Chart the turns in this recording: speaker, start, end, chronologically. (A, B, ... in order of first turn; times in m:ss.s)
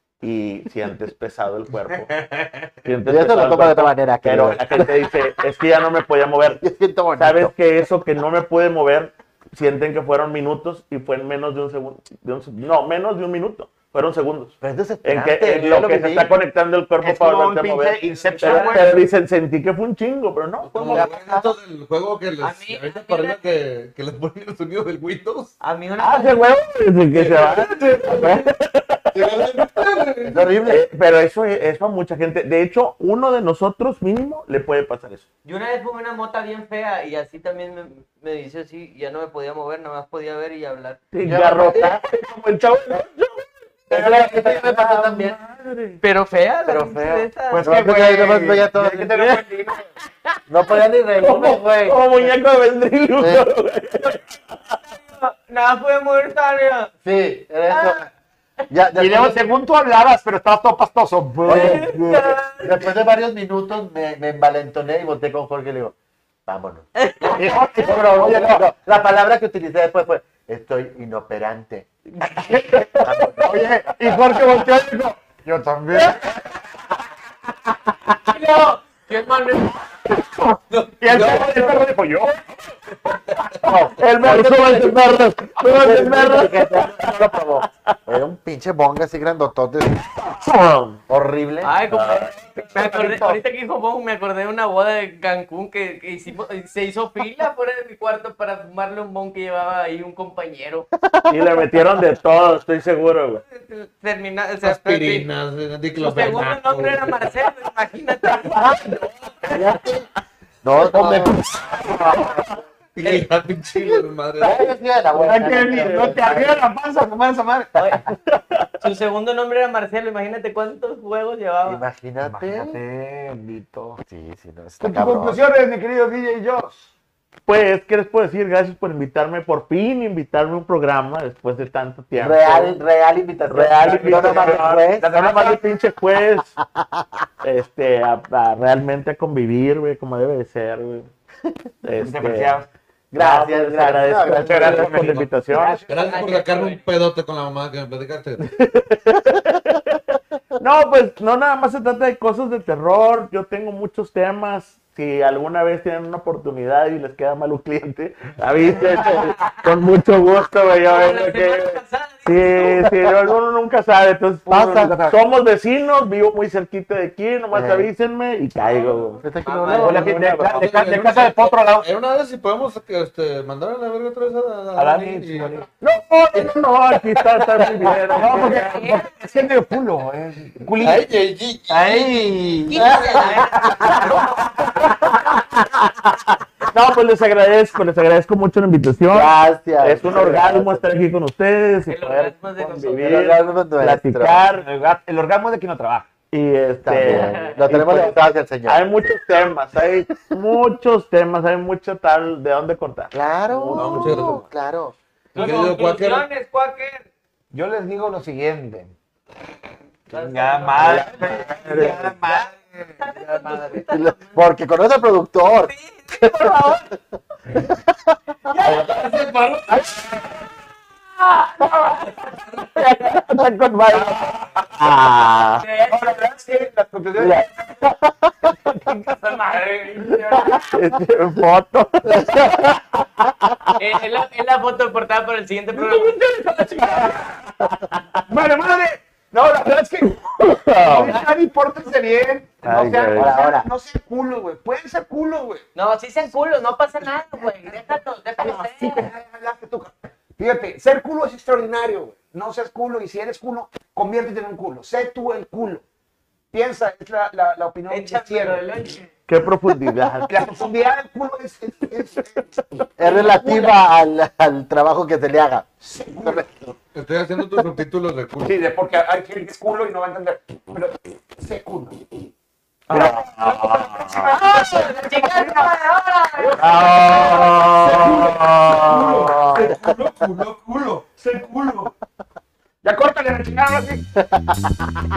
0:00.2-0:02.2 A
0:01.9-0:02.7 B
0:02.8-0:06.6 A
0:03.1-0:05.3 C
0:06.6-0:07.5 C
0:07.2-0:21.1 A
0:14.6-0:16.3 C
0:17.0-0:19.0 D
0:18.1-0:19.0 E
0:20.7-0:25.5 B
0:20.9-0:21.5 C
0:22.4-0:23.4 E
0:25.6-0:26.5 E
0:26.0-0:29.2 A
0:27.1-0:28.5 B
0:29.2-0:30.5 B
0:29.2-0:30.8 C
0:30.6-0:35.2 A
0:35.4-0:41.0 E
0:41.1-0:43.4 A
0:41.2-0:42.0 C
0:41.8-0:43.0 D
0:43.9-0:45.4 C
0:43.9-0:44.3 D
0:44.0-0:45.3 E
0:44.7-0:46.0 A
0:46.0-0:47.7 E
0:46.6-0:49.2 C
0:47.5-0:49.9 D
0:50.5-0:52.4 C
0:51.2-0:54.6 A
0:53.2-0:53.5 C
0:54.9-0:56.9 E
0:57.0-0:58.1 C
0:57.7-0:58.0 E
0:58.7-0:59.5 C
0:59.0-1:02.4 D
1:01.4-1:06.0 C
1:01.5-1:02.9 E
1:06.5-1:11.9 C
1:07.0-1:07.4 E
1:07.3-1:08.6 D
1:12.3-1:16.2 D
1:13.0-1:13.6 C
1:18.2-1:20.2 E
1:21.0-1:22.3 D
1:21.1-1:22.6 A
1:23.6-1:30.1 C
1:24.0-1:28.0 A
1:30.2-1:31.0 A
1:31.1-1:31.8 C
1:31.6-1:40.9 E
1:31.9-1:32.7 A
1:32.7-1:33.4 D
1:41.0-1:42.0 C
1:41.3-1:43.4 A
1:43.5-1:45.3 E
1:44.6-1:47.3 B
1:46.0-1:48.7 E
1:48.2-1:50.0 A
1:49.5-1:50.1 C
1:50.6-1:52.6 C
1:50.8-1:52.6 A
1:50.9-1:51.4 D
1:53.0-1:54.8 B
1:54.4-1:56.5 C
1:55.1-1:57.8 D
1:57.8-1:58.0 E
1:58.3-1:58.7 A
1:58.8-2:01.8 E
2:01.6-2:02.8 C
2:02.2-2:04.0 D
2:04.1-2:05.4 C
2:04.8-2:06.9 D
2:07.5-2:12.8 A
2:12.2-2:15.1 C
2:13.5-2:16.6 A
2:13.8-2:15.6 D
2:16.8-2:17.0 C
2:17.4-2:21.1 A
2:21.8-2:22.6 A
2:22.0-2:22.7 D
2:23.1-2:25.1 C
2:23.2-2:25.8 A
2:24.3-2:26.4 D
2:25.9-2:28.5 B
2:26.0-2:26.8 E
2:28.4-2:30.0 A
2:30.6-2:50.9 A
2:38.8-2:39.5 E
2:40.9-2:42.9 E
2:44.5-2:45.2 D
2:44.5-2:44.9 C
2:47.5-2:47.9 C
2:48.6-2:48.9 B
2:49.2-2:50.2 C
2:49.4-2:50.0 E
2:49.7-2:51.9 D
2:50.5-2:55.6 B
2:54.8-2:55.7 D
2:55.8-2:59.0 A
2:57.2-3:01.1 D
2:58.3-2:59.5 E
3:00.8-3:02.0 B
3:01.7-3:04.8 D
3:02.7-3:04.3 E
3:02.7-3:04.1 C
3:03.9-3:06.1 A
3:06.6-3:14.7 A
3:09.1-3:10.9 C
3:11.9-3:13.2 E
3:13.0-3:14.4 C
3:14.5-3:16.1 D
3:16.3-3:24.4 A
3:16.8-3:19.1 C
3:17.1-3:17.6 E
3:23.1-3:25.0 C
3:23.7-3:24.4 B
3:25.3-3:27.1 E
3:25.4-3:26.3 B
3:27.5-3:28.9 D
3:30.1-3:34.5 E
3:30.1-3:33.8 D
3:30.8-3:32.1 A
3:33.9-3:37.0 C
3:35.6-3:36.3 E
3:36.3-3:36.9 A
3:37.6-3:38.2 C
3:38.6-3:38.9 D
3:38.6-3:39.9 B
3:38.6-3:39.0 A
3:39.7-3:40.5 A
3:41.2-3:45.6 A
3:45.6-3:46.7 E
3:45.9-3:47.7 D
3:47.2-3:48.0 A
3:48.7-3:50.7 D
3:50.6-3:53.8 A
3:52.1-3:52.6 C
3:53.8-3:56.2 E
3:55.9-3:58.2 A
3:56.0-3:57.5 D
3:58.3-4:05.6 D
4:00.4-4:01.2 A
4:02.6-4:03.4 A
4:03.1-4:03.7 C
4:05.8-4:09.1 E
4:08.4-4:15.8 D
4:16.5-4:18.6 D
4:17.9-4:19.1 E
4:19.3-4:20.5 A
4:20.3-4:22.5 D
4:23.0-4:25.7 C
4:23.1-4:23.6 D
4:23.4-4:23.7 E
4:25.8-4:26.7 D
4:26.2-4:26.7 C
4:26.9-4:28.6 B
4:28.4-4:32.3 D
4:32.9-4:34.8 A
4:32.9-4:35.8 D
4:34.5-4:37.3 E
4:36.4-4:41.9 D
4:36.6-4:39.8 A
4:42.8-4:44.0 D
4:44.2-4:44.9 C